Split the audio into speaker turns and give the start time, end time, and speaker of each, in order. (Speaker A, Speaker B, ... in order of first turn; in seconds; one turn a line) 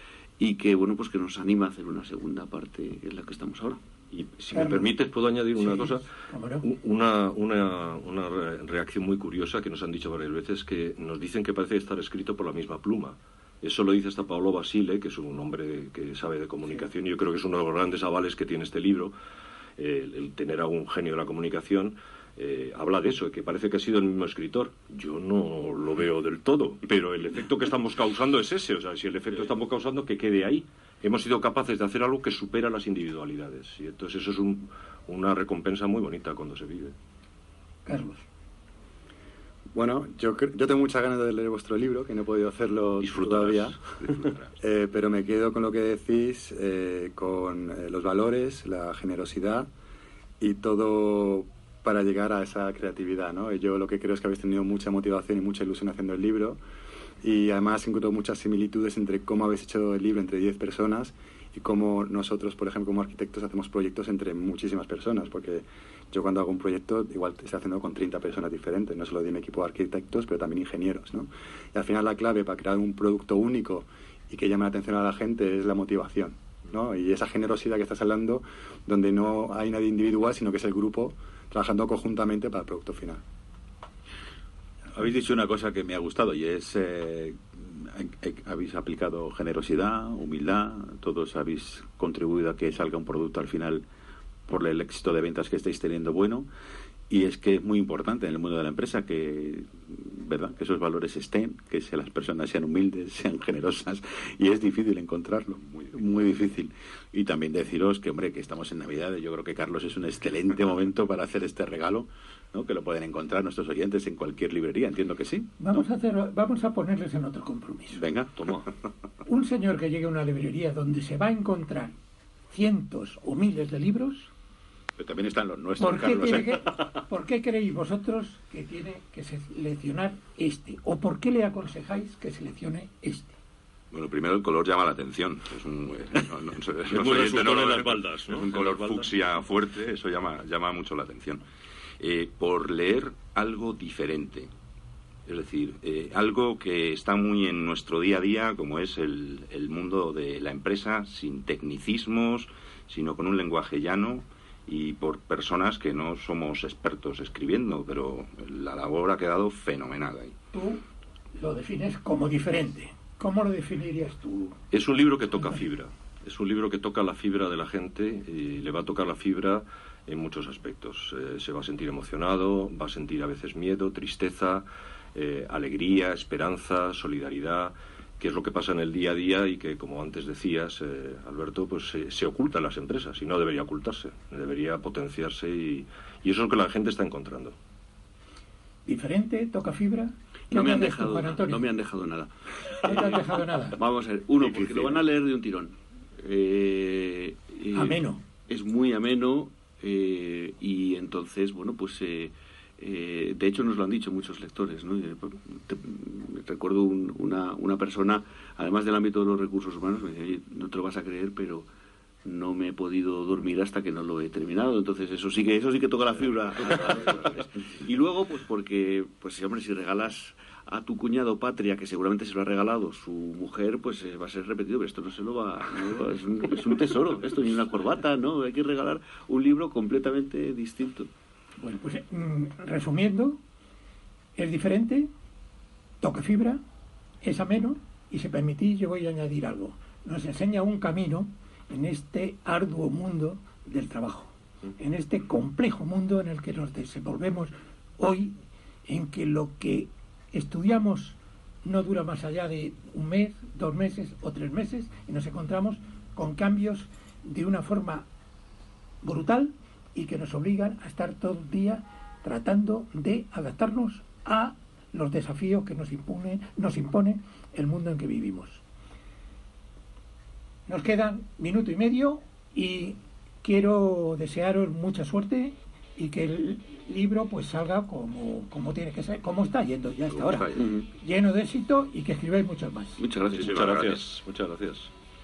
Speaker A: 0.4-3.8
Speaker B: 4.1-6.1
Speaker C: 4.5-4.9
Speaker C: 5.5-6.7
Speaker B: 6.6-19.1
Speaker B: 19.8-37.0
Speaker C: 37.9-38.2
Speaker D: 39.7-43.8
Speaker B: 43.0-44.4
Speaker D: 44.6-49.7
Speaker D: 50.4-56.6
Speaker D: 57.2-83.2
Speaker E: 84.9-93.8
Speaker E: 94.5-96.5
Speaker E: 97.1-115.8
Speaker F: 105.7-106.0
Speaker C: 115.6-118.0
Speaker E: 117.9-118.3
Speaker B: 118.4-118.7
Speaker C: 119.2-122.0
Speaker C: 122.5-124.3
Speaker E: 125.0-126.6
Speaker C: 125.8-133.4
Speaker F: 133.9-141.4
Speaker B: 136.9-139.1
Speaker F: 142.0-144.5
Speaker F: 145.3-160.3
Speaker C: 160.5-160.8
Speaker C: 161.4-164.6
Speaker B: 164.7-187.6
Speaker C: 188.9-191.7
Speaker A: 190.5-192.3
Speaker C: 192.8-193.8
Speaker A: 192.8-211.7
Speaker C: 197.7-198.2
Speaker A: 212.2-231.1
Speaker C: 231.6-233.4
Speaker C: 234.4-235.1
Speaker C: 236.0-236.6
Speaker C: 237.2-258.1
Speaker C: 259.0-268.6
Speaker C: 270.7-283.0
Speaker F: 280.1-280.6
Speaker A: 280.6-280.8
Speaker A: 283.0-283.5
Speaker B: 283.4-284.9
Speaker F: 283.4-284.0